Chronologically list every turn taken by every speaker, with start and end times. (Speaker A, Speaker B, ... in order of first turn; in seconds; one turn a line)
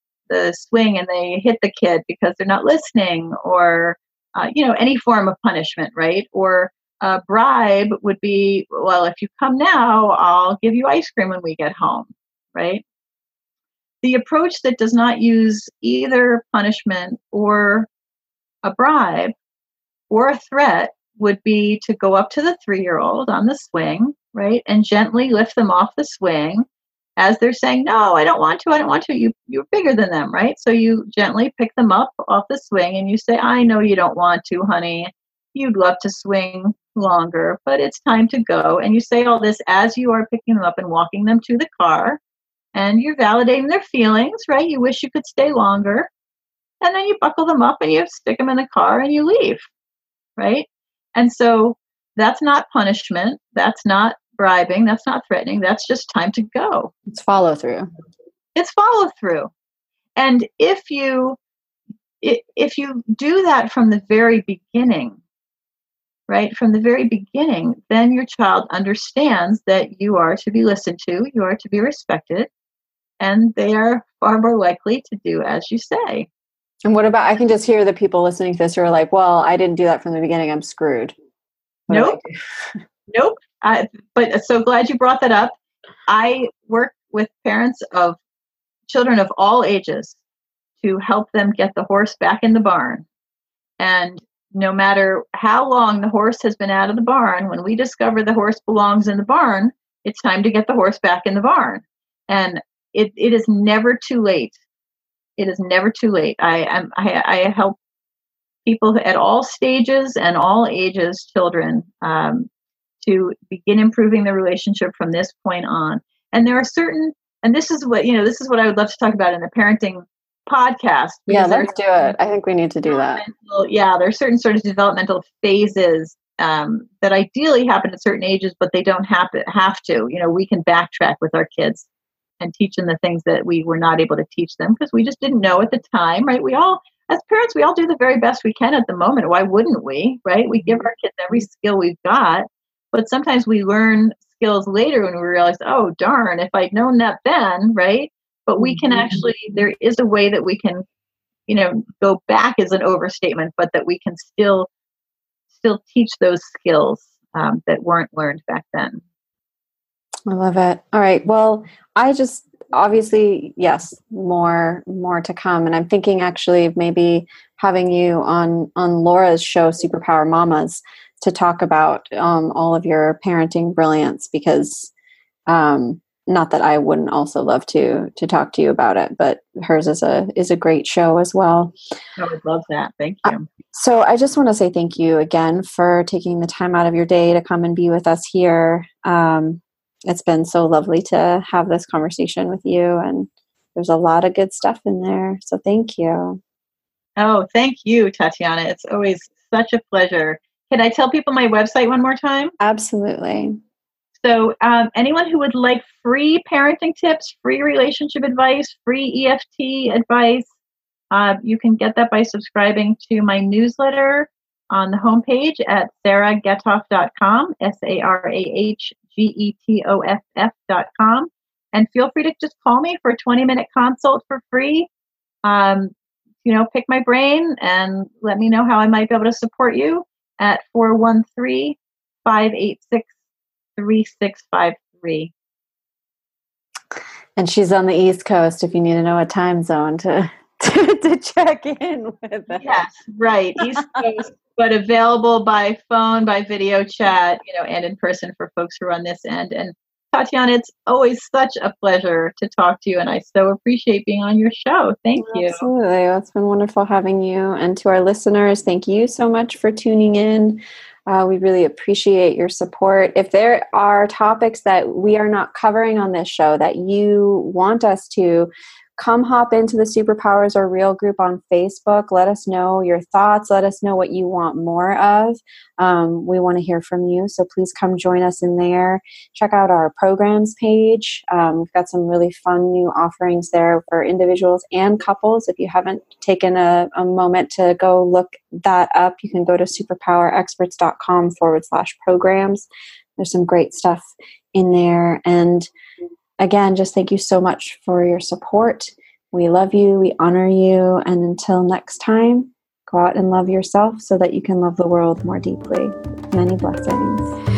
Speaker A: 0.3-12.8
Speaker A: 14.0-17.9
Speaker A: 18.6-19.3
Speaker A: 20.1-26.7
Speaker A: 27.2-42.2
Speaker A: 42.7-46.1
Speaker A: 46.8-49.7
Speaker A: 50.4-56.9
Speaker B: 57.1-57.9
Speaker A: 58.5-59.5
Speaker A: 60.2-61.4
Speaker A: 62.2-65.2
Speaker A: 66.3-72.5
Speaker A: 73.2-76.3
Speaker B: 76.8-81.2
Speaker B: 81.9-82.8
Speaker A: 81.9-82.2
Speaker A: 83.1-88.2
Speaker A: 88.9-90.2
Speaker A: 90.8-93.0
Speaker A: 93.8-104.6
Speaker A: 105.4-107.8
Speaker A: 108.7-112.5
Speaker A: 113.0-122.2
Speaker B: 121.3-123.2
Speaker A: 122.9-131.9
Speaker A: 132.4-150.8
Speaker A: 151.5-154.7
Speaker A: 155.5-159.0
Speaker B: 160.3-174.9
Speaker B: 175.5-181.7
Speaker A: 182.2-183.5
Speaker B: 183.3-196.4
Speaker A: 197.2-202.5
Speaker B: 202.6-203.6
Speaker A: 204.2-210.5
Speaker A: 211.1-224.9
Speaker A: 225.4-225.9
Speaker A: 226.4-233.1
Speaker A: 233.8-235.3
Speaker B: 237.4-242.8
Speaker A: 242.5-255.7
Speaker B: 255.2-295.7
Speaker B: 296.4-307.3